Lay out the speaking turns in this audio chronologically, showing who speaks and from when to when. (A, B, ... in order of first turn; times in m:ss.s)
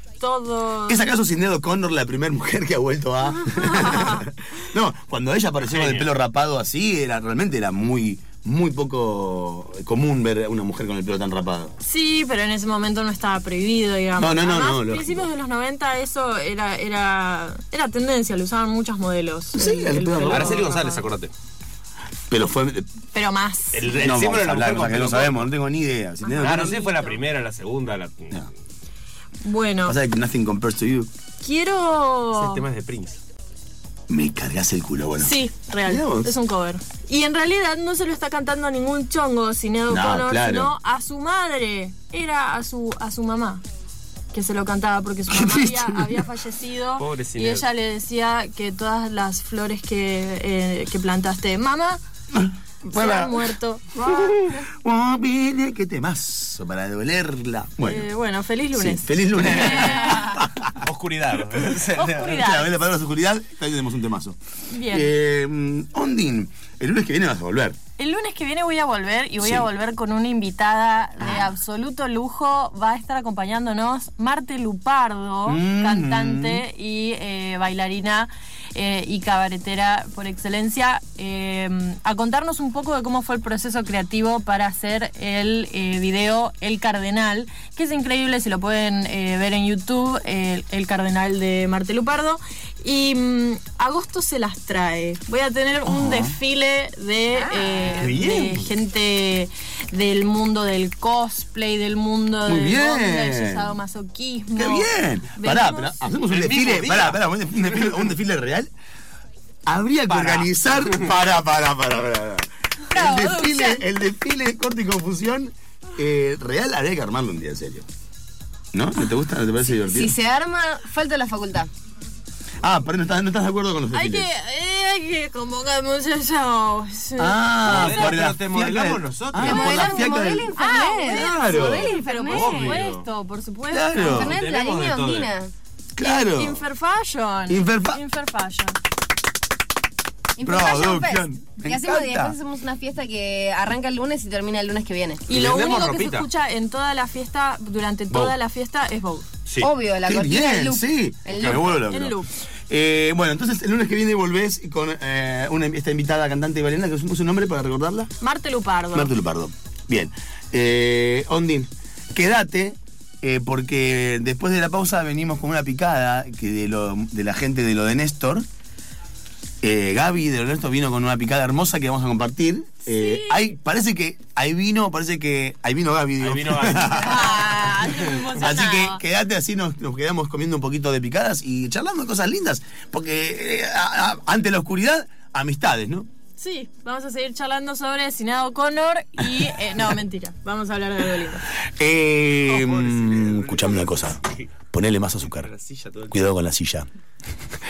0:00.2-0:01.0 A
0:00.9-0:11.7 B
0:03.4-0:04.2 A
0:05.6-0:06.1 C
0:11.8-0:21.0 A
0:14.2-0:15.3 B
0:19.5-0:20.6 B
0:20.2-0:21.3 C
0:22.3-0:22.9 B
0:23.1-0:24.0 A
0:23.7-0:25.5 C
0:23.9-0:27.1 B
0:26.4-0:28.4 C
0:29.4-0:30.0 A
0:29.8-0:31.1 B
0:31.4-0:32.6 A
0:32.3-0:33.2 C
0:34.1-0:36.3 B
0:35.2-0:43.6 A
0:39.9-0:40.7 B
0:44.3-0:52.0 A
0:45.3-0:46.2 B
0:47.0-0:47.6 C
0:52.3-0:53.4 B
0:52.8-0:54.4 A
0:54.0-0:58.1 B
0:57.8-1:00.4 A
0:58.7-1:00.8 B
0:59.4-1:02.4 C
1:01.6-1:07.8 B
1:01.9-1:02.8 A
1:04.7-1:05.1 A
1:08.0-1:46.0 A
1:09.4-1:09.7 B
1:15.4-1:16.6 B
1:35.8-1:36.4 B
1:38.0-1:38.6 C
1:42.4-1:43.7 B
1:44.6-1:48.7 B
1:46.3-1:47.2 C
1:49.6-1:57.8 B
1:50.1-1:50.9 C
1:52.9-1:53.8 A
1:53.2-1:53.6 D
1:58.7-2:00.1 B
1:59.6-2:01.7 D
2:02.6-2:04.3 B
2:03.9-2:08.2 A
2:07.2-2:12.0 B
2:07.6-2:09.8 C
2:09.4-2:12.8 D
2:09.4-2:14.3 A
2:12.2-2:13.0 C
2:13.7-2:14.3 B
2:14.0-2:15.5 D
2:14.1-2:15.3 C
2:16.0-2:16.6 B
2:16.0-2:18.8 A
2:17.5-2:18.0 B
2:20.4-2:25.2 D
2:20.4-2:22.4 B
2:25.3-2:29.2 A
2:25.3-2:26.3 C
2:29.6-2:31.6 D
2:30.0-2:38.1 B
2:31.4-2:31.8 C
2:31.9-2:32.3 A
2:38.2-2:39.1 A
2:38.9-2:48.4 B
2:49.6-2:57.4 B
2:52.8-2:53.5 A
2:56.2-2:58.0 C
2:56.9-2:59.0 A
2:58.4-3:06.1 B
3:06.4-3:11.5 A
3:11.6-3:14.2 B
3:12.5-3:14.4 C
3:14.7-3:15.5 B
3:15.2-3:16.2 C
3:16.1-3:16.9 B